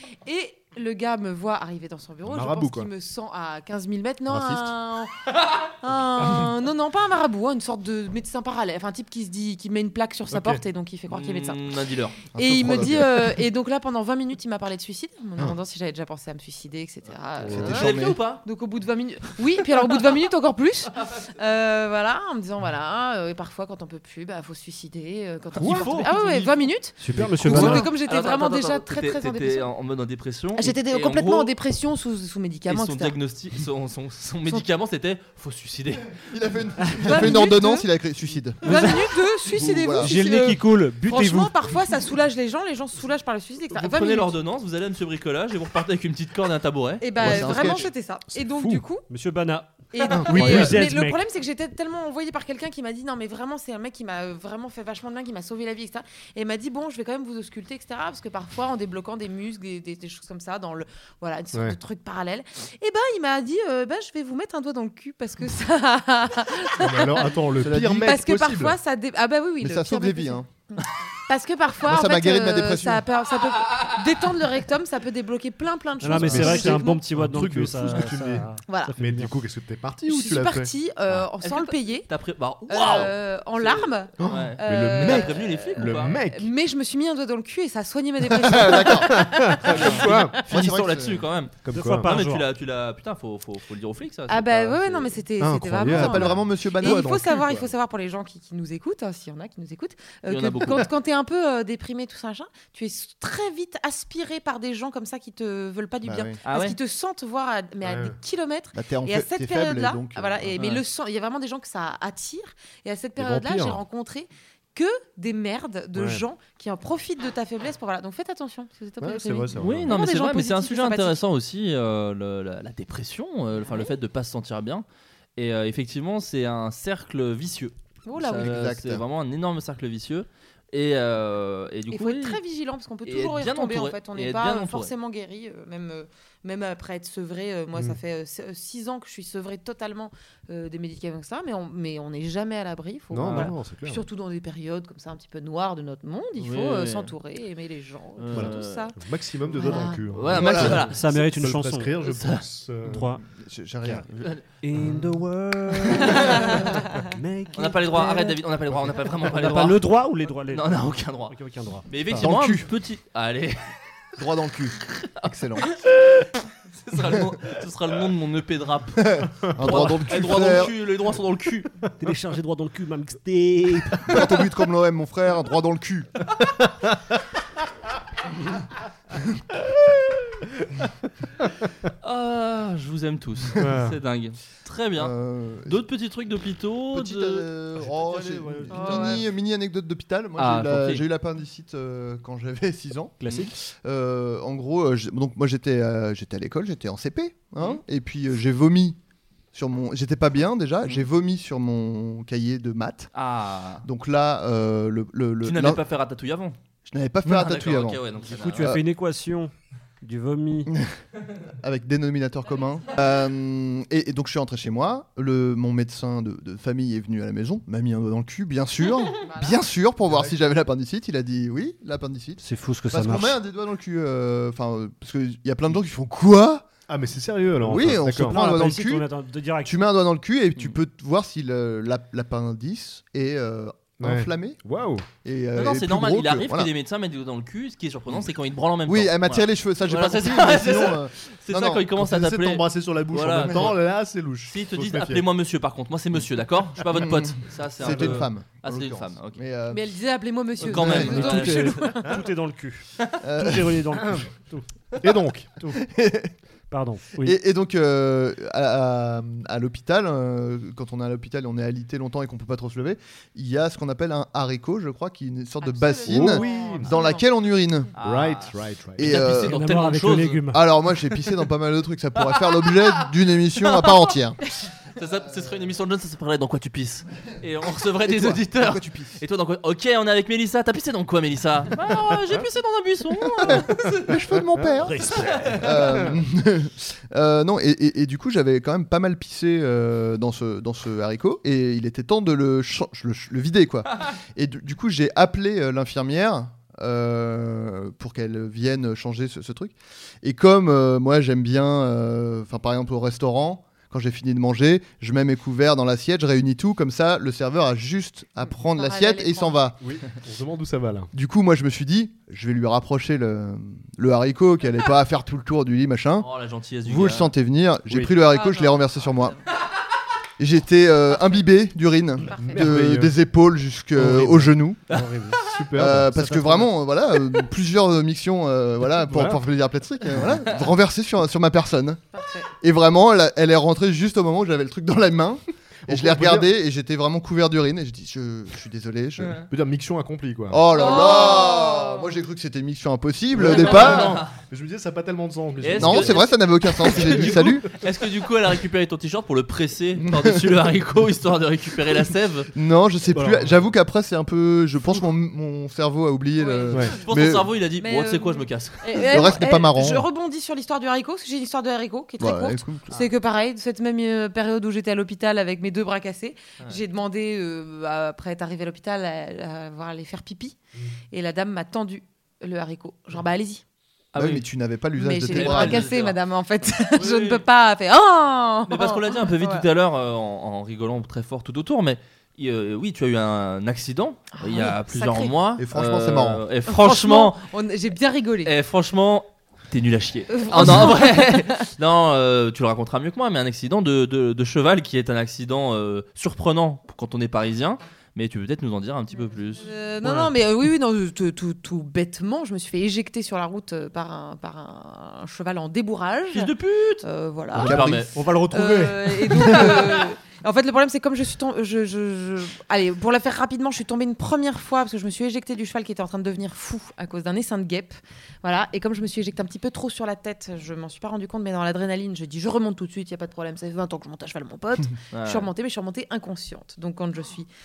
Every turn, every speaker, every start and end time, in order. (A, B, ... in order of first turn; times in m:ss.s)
0:00.3-0:11.7 A
0:02.3-0:02.9 B
0:04.3-0:04.6 C
0:10.3-0:10.6 B
0:11.1-0:12.2 D
0:12.4-0:13.4 C
0:12.4-0:29.7 A
0:17.4-0:18.0 B
0:17.5-0:18.2 C
0:17.6-0:18.4 D
0:25.6-0:26.0 B
0:25.6-0:26.5 D
0:27.0-0:27.9 E
0:27.1-0:27.6 B
0:27.5-0:31.5 D
0:30.6-0:33.2 A
0:32.7-0:36.3 D
0:36.3-0:38.9 C
0:37.0-0:37.9 A
0:38.6-0:44.4 A
0:38.7-0:39.0 E
0:39.5-0:40.1 C
0:40.0-0:41.5 E
0:43.7-0:47.1 D
0:47.0-0:49.0 A
0:47.2-0:47.9 C
0:47.2-0:47.7 B
0:48.3-0:48.8 B
0:49.1-0:51.2 E
0:49.9-1:17.0 A
0:50.2-0:50.8 B
1:06.8-1:08.8 B
1:07.6-1:08.1 C
1:09.6-1:10.5 C
1:11.8-1:13.0 C
1:16.0-1:19.3 E
1:16.2-1:20.7 B
1:18.7-1:18.9 A
1:20.1-1:22.1 A
1:21.4-1:26.2 D
1:22.7-1:30.3 A
1:24.2-1:26.5 B
1:28.3-1:31.3 C
1:29.1-1:30.4 B
1:29.7-1:35.2 D
1:31.7-1:32.1 B
1:31.7-1:32.5 E
1:34.3-2:01.2 A
1:35.4-1:37.7 B
1:35.9-1:37.4 C
1:40.3-1:40.8 D
1:46.0-1:46.4 C
1:46.4-1:46.8 D
1:47.8-1:48.2 B
1:48.8-1:50.7 C
1:53.2-1:53.8 B
1:56.0-1:56.2 B
1:59.0-2:00.0 B
1:59.6-2:04.8 D
2:03.6-2:03.9 A
2:05.4-2:12.4 D
2:08.0-2:08.6 A
2:08.4-2:09.0 C
2:11.9-2:29.0 A
2:13.0-2:14.9 D
2:23.1-2:24.0 B
2:23.2-2:23.5 D
2:26.4-2:27.1 D
2:28.2-2:28.9 D
2:28.3-2:33.2 B
2:29.5-2:30.0 A
2:30.1-2:31.0 D
2:30.3-2:30.9 C
2:30.5-2:31.9 E
2:32.0-2:32.4 D
2:32.8-2:33.2 E
2:33.3-2:34.1 C
2:34.1-2:34.4 D
2:34.6-2:41.9 E
2:36.1-2:36.6 D
2:36.2-2:37.0 A
2:37.5-2:39.8 D
2:40.5-2:43.6 D
2:42.1-2:42.7 C
2:44.2-2:45.7 C
2:44.9-2:46.0 D
2:46.7-2:49.1 D
2:49.0-2:50.8 C
2:49.5-2:49.9 B
2:49.6-2:51.7 D
2:52.0-2:54.3 E
2:54.1-2:56.1 C
3:02.0-3:05.1 D
3:03.6-3:04.0 B
3:05.0-3:05.8 C
3:05.6-3:07.5 D
3:06.9-3:13.2 C
3:07.9-3:09.2 E
3:08.7-3:09.3 A
3:10.4-3:11.0 D
3:13.2-3:13.6 E
3:13.3-3:13.5 D
3:13.7-3:19.0 C
3:19.5-3:23.1 C
3:23.1-3:23.8 D
3:23.8-3:25.8 C
3:25.4-3:26.6 D
3:26.9-3:28.8 C
3:27.2-3:28.8 D
3:28.3-3:30.7 E
3:31.6-3:46.7 C
3:39.1-3:39.7 A
3:42.4-3:43.4 E
3:46.9-3:48.4 B
3:47.6-3:49.1 C
3:48.2-3:49.8 E
3:49.6-3:54.6 C
3:54.0-3:55.1 B
3:55.2-3:56.7 C
3:55.6-4:03.8 D
3:58.9-4:01.9 C
4:02.0-4:05.3 B
4:03.4-4:03.7 C
4:04.5-4:09.4 D
4:06.8-4:09.8 C
4:09.7-4:12.2 A
4:10.6-4:11.8 D
4:10.7-4:11.3 C
4:10.9-4:14.6 E
4:13.2-4:13.8 C
4:14.0-4:14.3 B
4:15.0-4:15.5 B
4:15.6-4:15.8 E
4:15.7-4:16.3 C
4:16.7-4:17.4 E
4:17.2-4:27.9 C
4:25.6-4:27.3 A
4:26.1-4:26.9 B
4:28.0-4:30.5 D
4:28.0-4:29.1 B
4:29.0-4:29.6 C
4:29.1-4:30.6 E
4:30.5-4:34.4 C
4:32.4-4:33.0 D
4:35.0-4:44.1 D
4:38.1-4:39.2 C
4:43.4-5:09.8 C
4:44.8-4:45.5 E
4:45.1-4:45.6 D
5:08.4-5:09.6 A
5:09.8-5:11.1 B
5:11.1-5:16.3 C
5:16.2-5:17.3 D
5:16.8-5:19.4 C
5:18.2-5:19.4 A
5:20.4-5:24.8 C
5:21.1-5:21.4 A
5:22.2-5:22.8 A
5:22.4-5:23.2 B
5:24.0-5:24.5 B
5:24.9-5:26.7 E
5:25.4-5:26.3 B
5:25.8-5:32.0 C
5:29.0-5:29.4 B
5:32.1-5:32.5 A
5:32.6-5:39.4 C
5:35.9-5:36.5 B
5:39.2-5:39.5 D
5:39.5-5:40.6 B
5:40.5-5:44.2 C
5:40.7-5:42.2 A
5:43.3-5:46.3 B
5:43.5-5:44.3 D
5:45.6-5:52.5 D
5:45.8-5:47.6 C
5:46.9-5:47.6 B
5:50.0-5:50.6 C
5:52.5-5:57.5 C
5:53.1-5:53.6 B
5:56.4-5:56.9 A
5:56.9-5:59.1 D
5:57.8-6:10.6 A
5:59.0-6:00.1 C
6:02.2-6:03.0 C
6:11.1-6:13.6 A
6:14.1-6:14.5 D
6:14.2-6:15.9 C
6:15.0-6:19.6 A
6:15.3-6:16.2 D
6:16.9-6:17.4 D
6:18.7-6:27.4 D
6:24.3-6:25.4 A
6:25.6-6:26.4 C
6:26.7-6:28.5 A
6:28.4-6:39.7 D
6:30.3-6:31.7 A
6:39.6-6:47.8 A
6:46.3-6:48.1 D
6:47.6-6:48.1 C
6:48.2-6:49.8 E
6:48.5-7:07.5 A
7:05.1-7:05.5 D